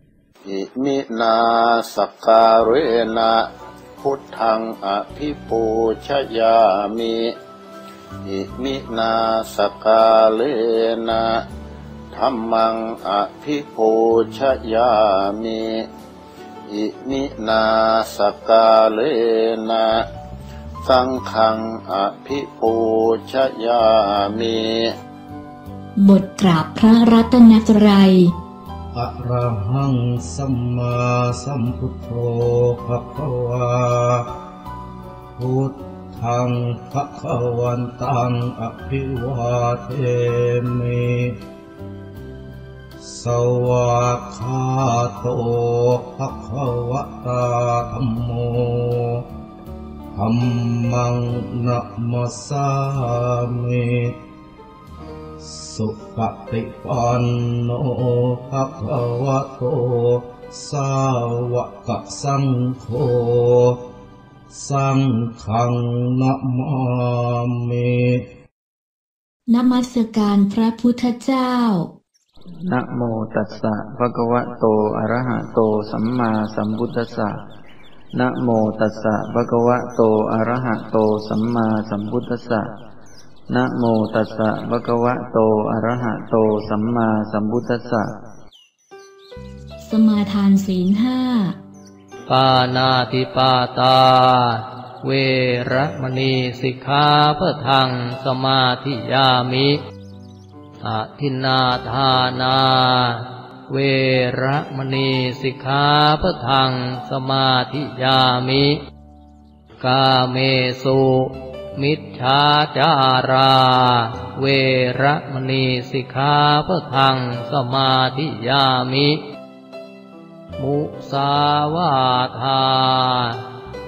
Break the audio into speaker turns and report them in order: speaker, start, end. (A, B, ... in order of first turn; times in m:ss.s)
0:00.4-0:03.4 A
0:04.0-0:07.3 A
0:08.2-0:11.4 A
0:12.1-0:15.8 A
0:16.7-0:20.0 A
0:20.8-0:24.7 A
0:26.0-0:28.3 B
0:28.9-0:34.2 C
0:35.4-0:41.3 C
0:43.0-0:49.2 C
0:50.1-0:54.1 C
0:55.4-1:03.8 C
1:04.5-1:08.2 C
1:09.5-1:11.9 B
1:12.7-1:17.3 D
1:18.2-1:22.7 D
1:23.5-1:28.1 D
1:29.8-1:31.6 B
1:32.3-1:39.8 E
1:40.8-1:48.8 E
1:49.8-1:59.2 E
2:00.6-2:03.4 E